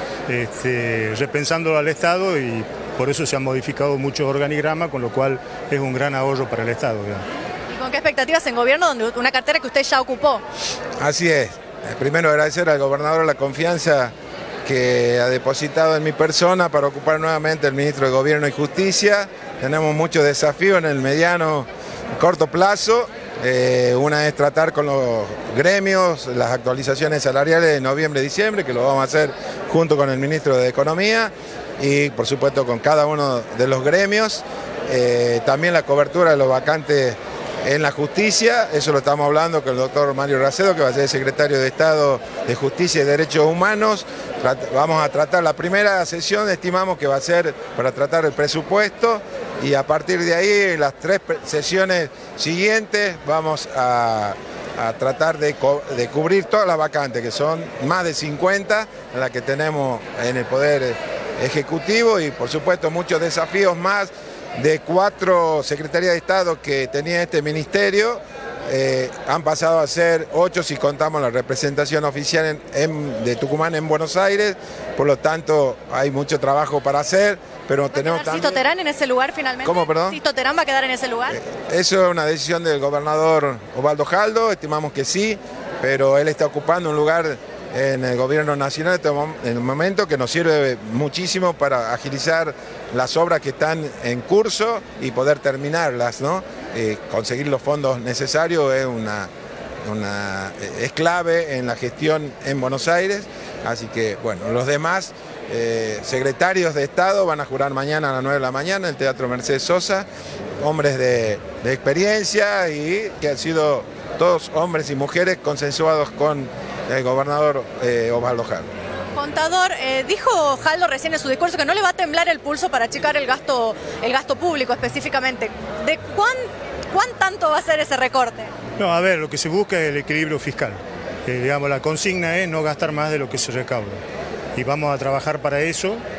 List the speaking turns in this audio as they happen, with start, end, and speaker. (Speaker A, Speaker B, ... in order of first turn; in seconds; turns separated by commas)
Speaker A: 0.3-7.2, Speaker B: 7.7-10.4, Speaker C: 11.0-14.1, Speaker C: 14.6-78.6, Speaker B: 77.9-81.4, Speaker C: 79.6-80.2, Speaker C: 81.4-99.3, Speaker C: 99.8-110.1, Speaker C: 110.6-118.7, Speaker B: 119.2-128.5, Speaker A: 128.8-134.0, Speaker A: 134.6-136.0